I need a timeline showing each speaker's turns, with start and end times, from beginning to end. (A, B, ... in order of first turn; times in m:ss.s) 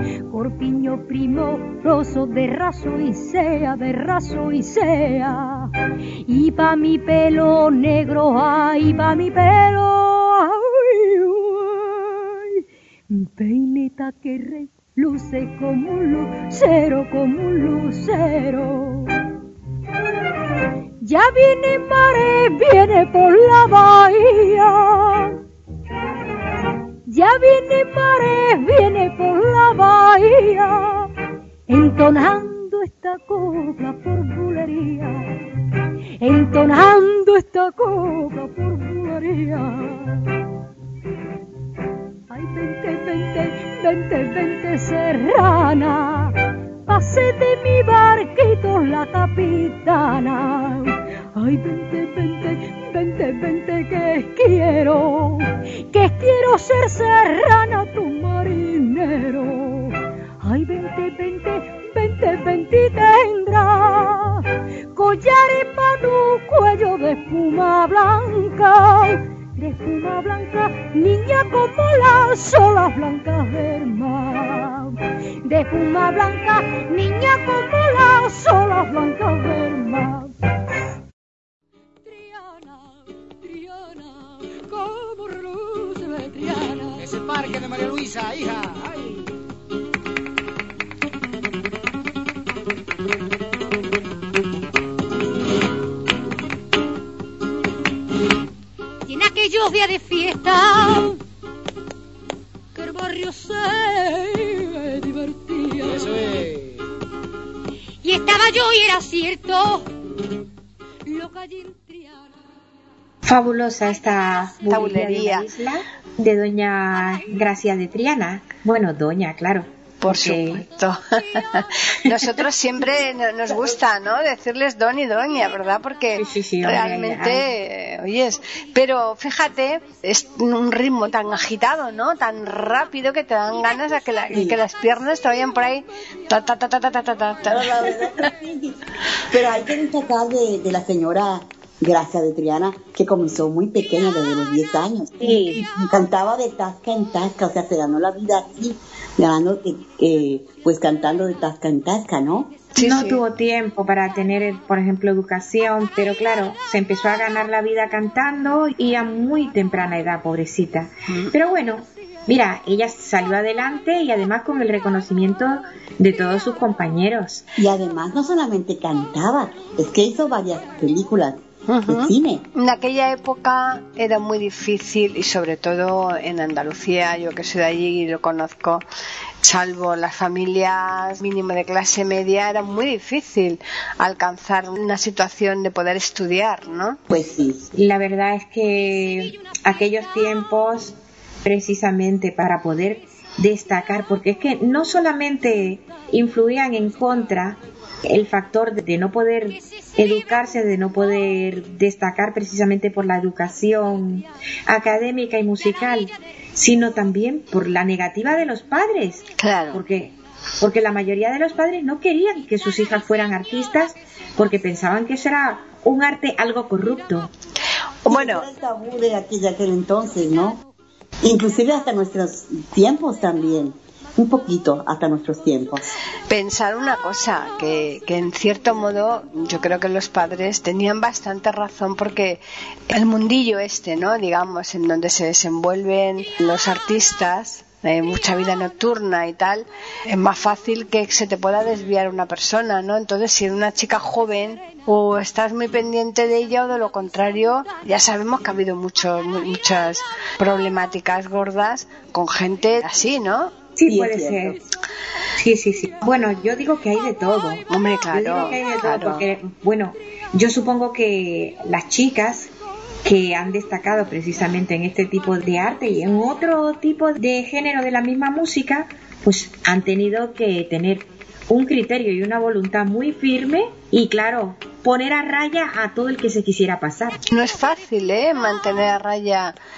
0:00.3-0:05.7 A
0:06.2-0:19.2 A
0:21.0-0:25.4 A
0:27.1-0:31.1 A
0:31.7-0:35.2 A
0:36.2-0:40.2 A
0:42.3-1:20.3 A
1:22.0-1:27.1 A
1:27.0-1:29.2 B
1:39.0-1:41.2 A
1:42.7-1:46.1 A
1:45.9-1:46.8 B
1:48.0-1:49.9 A
1:51.0-1:52.3 A
1:53.2-2:00.6 C
1:54.7-1:55.4 D
2:00.0-2:18.1 D
2:03.5-2:03.8 E
2:06.2-2:07.5 C
2:14.3-2:14.6 E
2:17.5-2:32.5 E
2:25.2-2:25.6 C
2:32.7-2:33.2 D
2:32.8-2:47.4 C
2:47.6-2:52.5 E
2:51.7-2:58.8 D
2:59.4-3:07.0 D
3:07.1-3:07.6 E
3:07.7-3:37.3 C
3:29.4-3:29.8 D
3:38.0-3:38.5 D
3:38.0-3:40.6 E
3:41.2-3:45.9 E
3:46.3-4:13.6 D
4:13.8-4:14.6 C
4:13.8-4:14.6 E
4:15.4-4:22.5 C
4:17.7-4:19.2 D
4:23.0-4:37.2 C
4:37.3-4:39.6 D